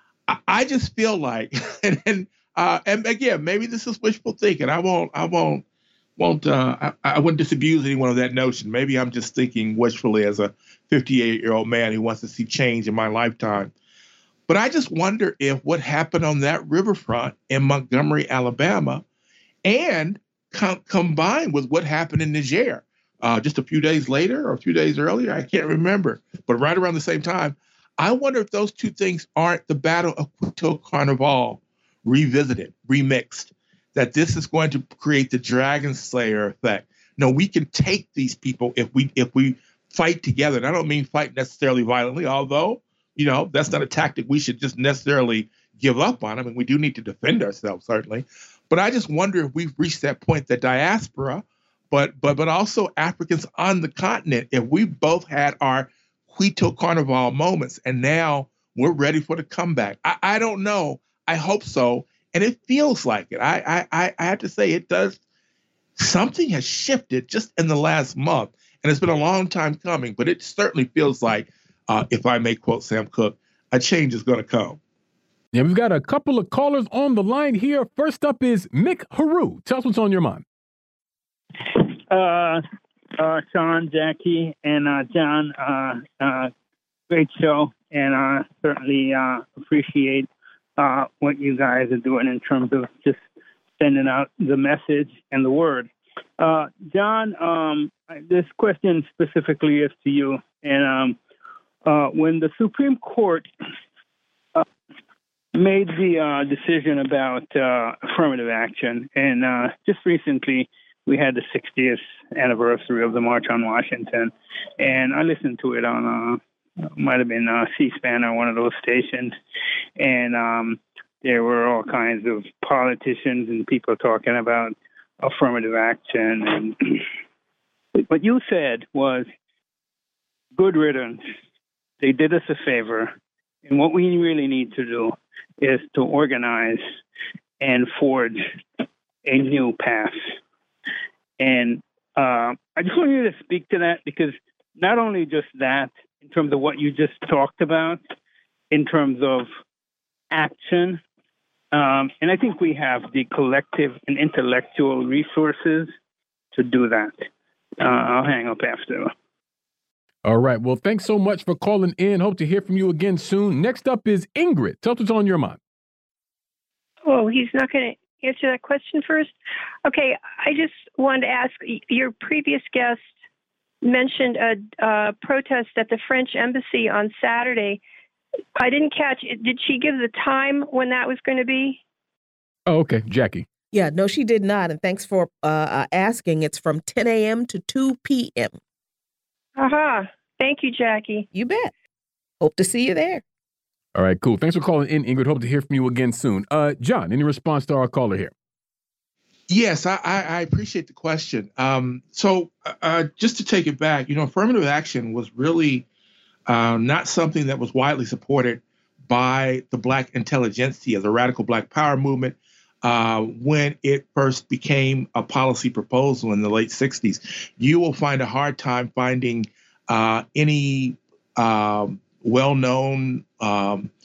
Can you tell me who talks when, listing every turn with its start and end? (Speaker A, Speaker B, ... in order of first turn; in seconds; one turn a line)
Speaker A: 0.3-5.6
Speaker A: 6.2-13.7
Speaker A: 14.5-19.0
Speaker A: 19.6-65.2
Speaker A: 66.0-74.8
Speaker B: 75.5-80.4
Speaker C: 81.8-82.6
Speaker C: 83.2-86.5
Speaker C: 87.1-93.2
Speaker C: 93.8-101.2
Speaker C: 101.8-103.5
Speaker C: 105.5-119.3
Speaker C: 120.0-127.0
Speaker C: 128.1-129.3
Speaker C: 130.6-131.2
Speaker C: 132.0-133.1
Speaker C: 133.6-136.8
Speaker C: 137.6-138.4
Speaker C: 139.2-140.3
Speaker C: 141.4-148.0
Speaker C: 148.7-149.5
Speaker C: 150.3-151.0
Speaker C: 151.7-155.9
Speaker C: 156.5-157.3
Speaker C: 157.8-159.1
Speaker B: 160.2-165.6
Speaker D: 167.1-169.3
Speaker D: 169.8-173.1
Speaker D: 173.8-177.8
Speaker D: 178.6-181.8
Speaker B: 182.7-183.5
Speaker E: 183.7-188.6
Speaker D: 189.6-191.3
Speaker E: 191.3-191.7
Speaker E: 192.4-193.2
Speaker B: 193.9-198.3
Speaker A: 199.5-205.8
Speaker A: 206.5-223.9